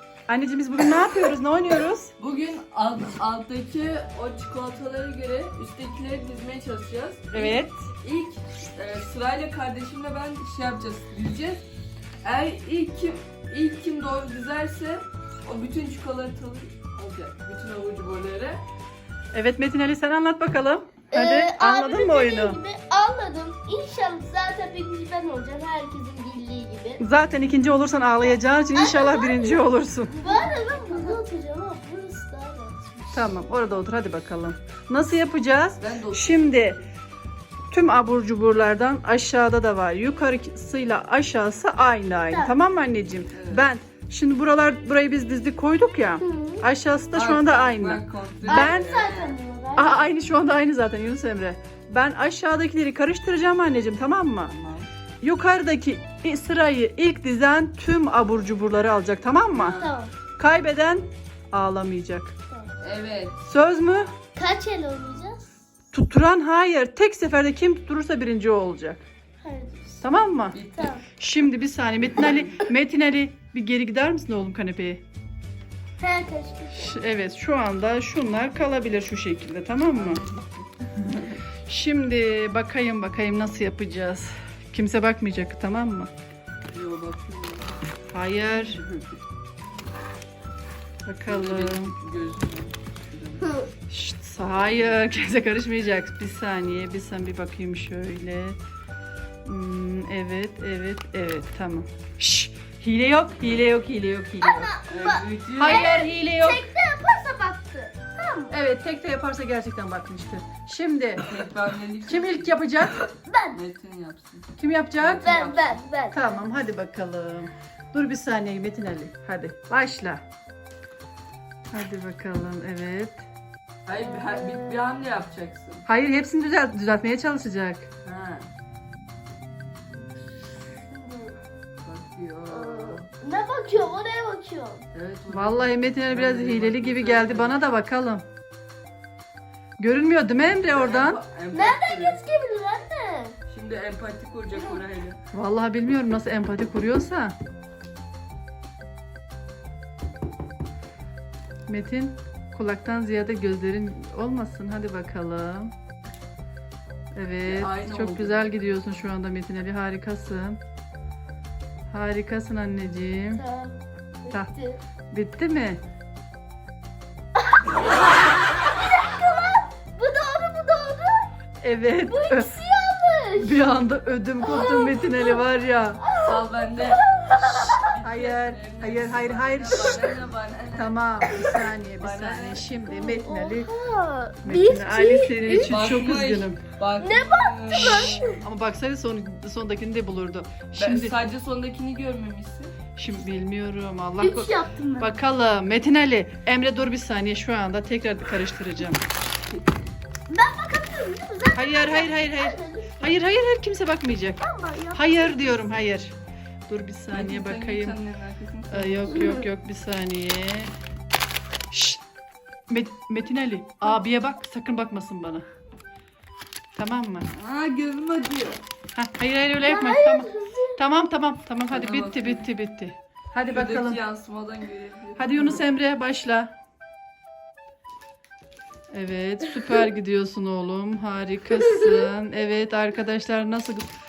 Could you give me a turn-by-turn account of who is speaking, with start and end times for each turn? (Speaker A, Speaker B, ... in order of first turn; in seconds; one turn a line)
Speaker A: 0.3-2.1
Speaker B: 2.2-11.6
Speaker A: 7.3-7.8
Speaker B: 12.2-18.6
Speaker A: 19.3-22.6
Speaker C: 21.1-27.0
Speaker A: 27.0-30.1
Speaker C: 28.7-29.6
Speaker C: 30.2-33.4
Speaker B: 30.2-30.9
Speaker A: 33.1-36.8
Speaker B: 35.8-36.5
Speaker A: 37.7-48.9
Speaker B: 43.3-43.6
Speaker C: 46.2-46.7
Speaker B: 47.1-49.4
Speaker C: 48.5-50.1
Speaker A: 49.8-54.5
Speaker B: 54.5-54.9
Speaker A: 55.2-59.8
Speaker B: 59.5-60.0
Speaker C: 59.8-60.1
Speaker A: 60.4-62.3
Speaker B: 62.8-63.4
Speaker A: 63.5-64.1
Speaker C: 64.3-65.5
Speaker A: 65.9-69.0
Speaker C: 69.4-70.0
Speaker A: 70.0-70.6
Speaker B: 70.5-70.9
Speaker C: 70.8-71.0
Speaker A: 71.2-75.0
Speaker B: 72.2-72.7
Speaker C: 76.0-77.0
Speaker A: 76.8-80.2
Speaker B: 80.0-81.4
Speaker A: 81.1-86.1
Speaker B: 86.7-87.8
Speaker A: 88.1-88.8
Speaker B: 88.5-89.0
Speaker A: 91.0-92.0
Speaker B: 91.2-93.5
Speaker C: 93.4-93.7
Speaker A: 93.9-98.6
Speaker A: 99.5-104.7
Speaker C: 104.4-108.5
Speaker B: 104.9-105.9
Speaker A: 105.5-106.7
Speaker A: 108.5-111.2
Speaker B: 111.2-113.0
Speaker A: 112.1-113.1
Speaker C: 113.2-113.6
Speaker B: 113.5-114.5
Speaker A: 114.6-115.5
Speaker B: 115.0-115.8
Speaker C: 115.2-116.4
Speaker A: 116.1-120.2
Speaker A: 121.7-123.2
Speaker B: 123.9-125.8
Speaker C: 124.0-124.8
Speaker A: 125.9-127.9
Speaker B: 128.0-128.5
Speaker C: 130.9-131.4
Speaker B: 131.8-133.1
Speaker C: 132.5-134.8
Speaker B: 134.9-137.6
Speaker A: 135.3-138.2
Speaker A: 139.8-141.2
Speaker B: 140.7-142.2
Speaker C: 141.5-143.4
Speaker B: 143.5-145.2
Speaker A: 145.3-147.3
Speaker A: 151.7-155.7
Speaker A: 157.1-160.6
Speaker B: 157.4-158.5
Speaker A: 161.9-163.4
Speaker C: 163.3-164.8
Speaker A: 165.1-165.8
Speaker C: 167.4-171.3
Speaker A: 171.6-172.6
Speaker C: 172.1-173.6
Speaker A: 173.3-176.0
Speaker C: 174.4-175.4
Speaker C: 176.0-177.9
Speaker B: 176.2-182.8
Speaker A: 178.0-180.1
Speaker A: 180.7-183.7
Speaker C: 182.9-185.7
Speaker A: 184.4-186.6
Speaker B: 185.6-188.2
Speaker C: 187.0-188.4
Speaker A: 187.7-191.2
Speaker B: 190.8-192.7
Speaker A: 192.9-199.0
Speaker C: 194.2-195.1
Speaker C: 200.3-203.1
Speaker A: 201.5-204.4
Speaker C: 204.4-205.7
Speaker A: 204.9-206.1
Speaker A: 206.7-208.0
Speaker B: 207.1-209.3
Speaker A: 208.7-210.7
Speaker A: 211.7-212.0
Speaker A: 212.7-215.4
Speaker A: 216.8-217.3
Speaker B: 217.3-218.6
Speaker A: 218.9-224.0
Speaker C: 219.6-220.8
Speaker B: 221.7-222.4
Speaker B: 223.4-225.6
Speaker A: 225.2-226.5
Speaker A: 228.9-233.9
Speaker C: 231.6-231.9